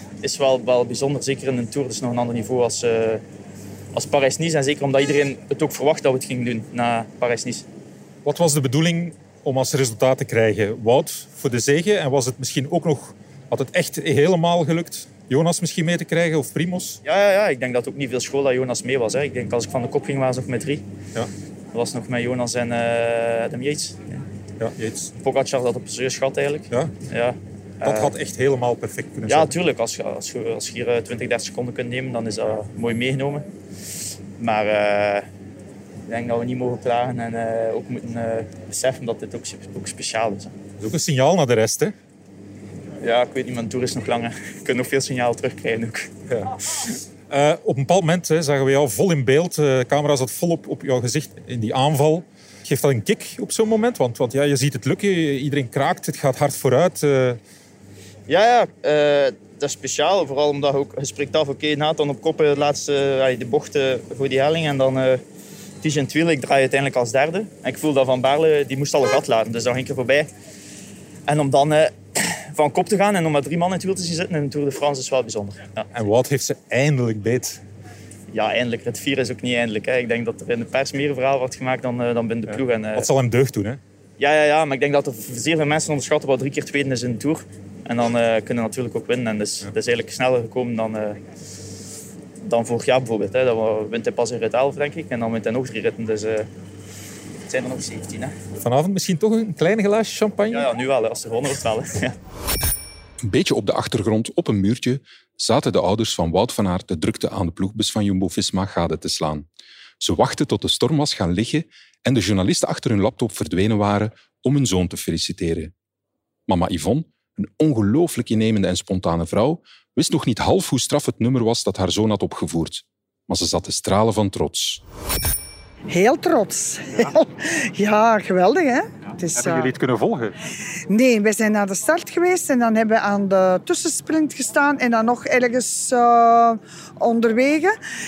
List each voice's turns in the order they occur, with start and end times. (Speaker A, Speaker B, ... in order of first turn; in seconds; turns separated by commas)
Speaker A: 0.2-3.2, Speaker A: 3.9-7.7, Speaker B: 8.2-17.0, Speaker A: 17.0-20.8, Speaker A: 21.7-24.2, Speaker B: 24.6-25.1, Speaker A: 25.2-28.1, Speaker B: 27.8-29.5, Speaker A: 29.3-33.5, Speaker A: 34.4-35.3, Speaker A: 36.1-40.5, Speaker B: 40.8-41.9, Speaker A: 43.0-46.1, Speaker B: 47.3-57.4, Speaker A: 58.3-65.2, Speaker A: 65.8-70.3, Speaker A: 71.3-75.9, Speaker B: 75.9-77.6, Speaker A: 78.3-83.1, Speaker B: 82.5-83.8, Speaker A: 84.2-91.2, Speaker A: 92.4-96.5, Speaker A: 97.5-98.3, Speaker B: 98.6-100.7, Speaker A: 100.5-102.2, Speaker C: 103.2-109.5, Speaker C: 110.0-115.7, Speaker C: 116.5-124.8, Speaker D: 125.9-129.7, Speaker B: 129.3-130.3, Speaker D: 130.9-137.8